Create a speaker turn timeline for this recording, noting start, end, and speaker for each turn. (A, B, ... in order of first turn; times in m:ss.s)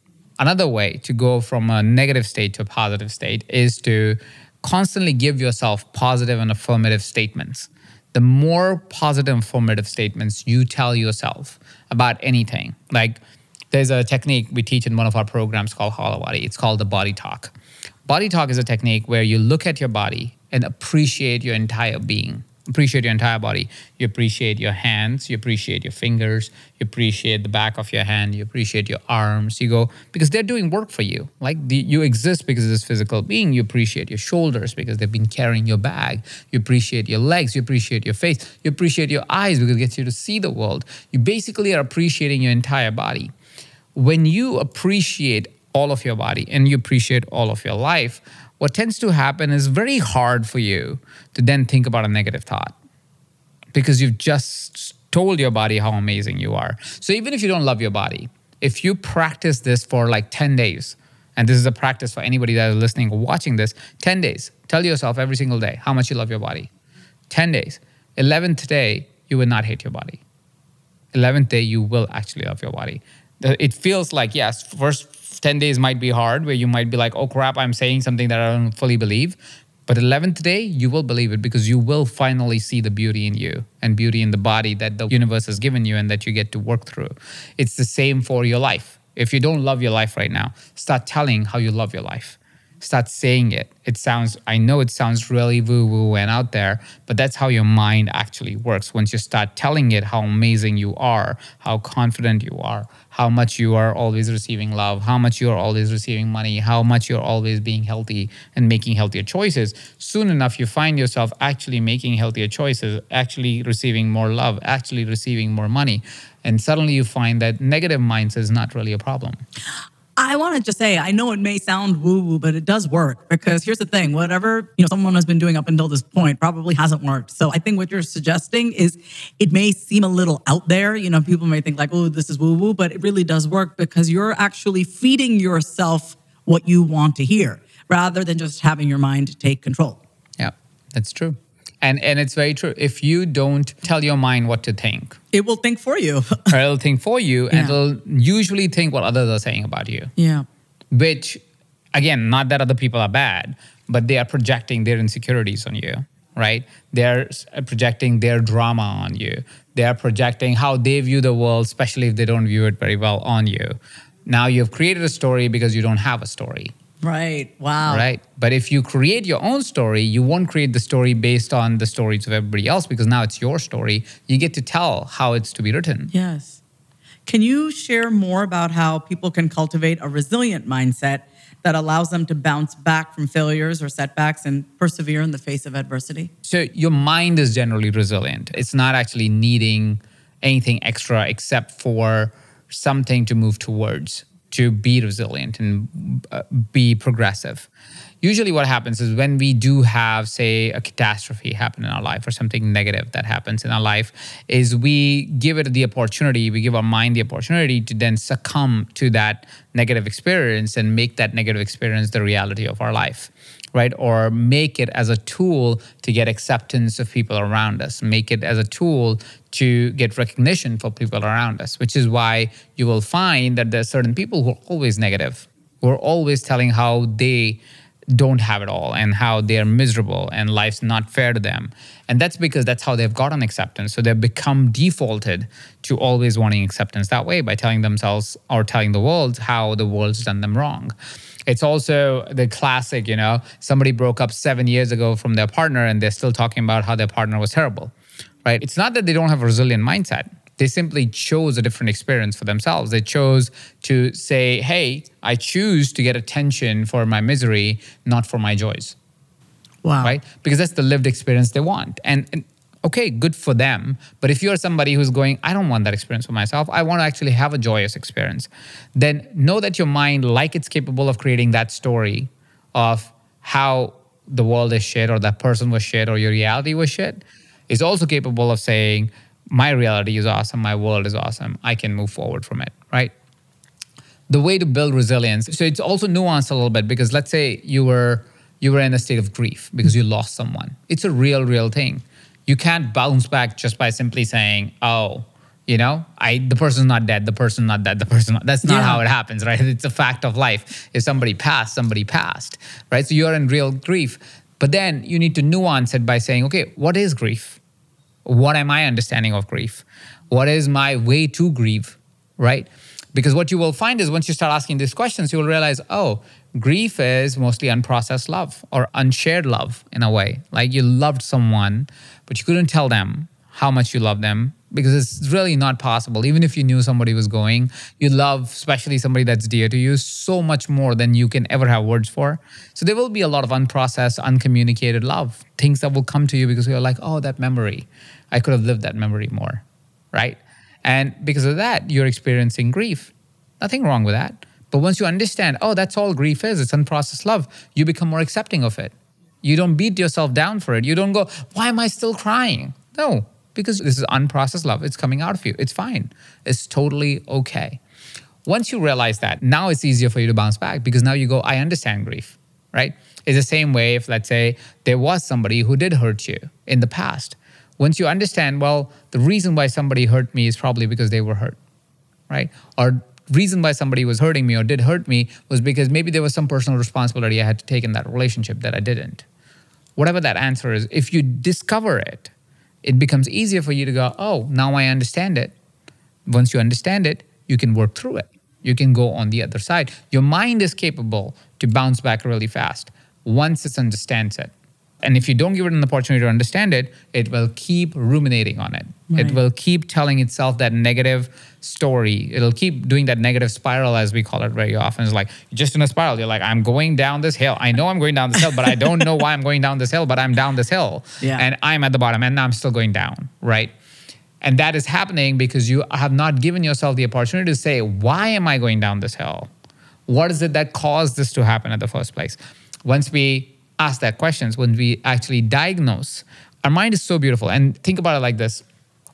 0:00.4-0:13.2 A
0:13.7-0:17.5 A
0:18.1-0:43.3 A
0:44.0-0:52.8 A
0:53.7-1:06.7 A
1:07.3-1:10.2 A
1:11.1-1:59.4 A
2:00.2-2:20.0 B
2:20.4-2:25.2 A
2:25.3-2:26.5 B
2:26.5-2:30.1 A
2:27.5-2:27.8 B
2:30.2-2:30.5 B
2:30.9-2:31.4 A
2:31.9-2:43.8 A
2:44.3-2:46.7 A
2:47.0-2:48.1 B
2:47.9-2:56.1 A
2:56.1-2:56.6 B
2:57.3-3:06.3 B
3:06.4-3:17.7 A
3:18.2-3:47.6 A
3:48.1-4:00.9 A
4:01.5-4:07.9 A
4:08.4-4:19.0 A
4:19.8-4:20.2 B
4:20.0-4:43.1 A
4:44.3-5:07.6 A
4:58.6-4:59.0 B
5:08.2-5:57.8 A
5:58.5-6:11.6 A
6:12.3-6:19.2 A
6:20.0-6:22.3 A
6:22.8-6:25.5 A
6:26.3-6:34.5 A
6:35.0-6:53.7 A
6:39.1-6:39.4 B
6:54.4-6:59.5 A
7:00.1-7:08.6 A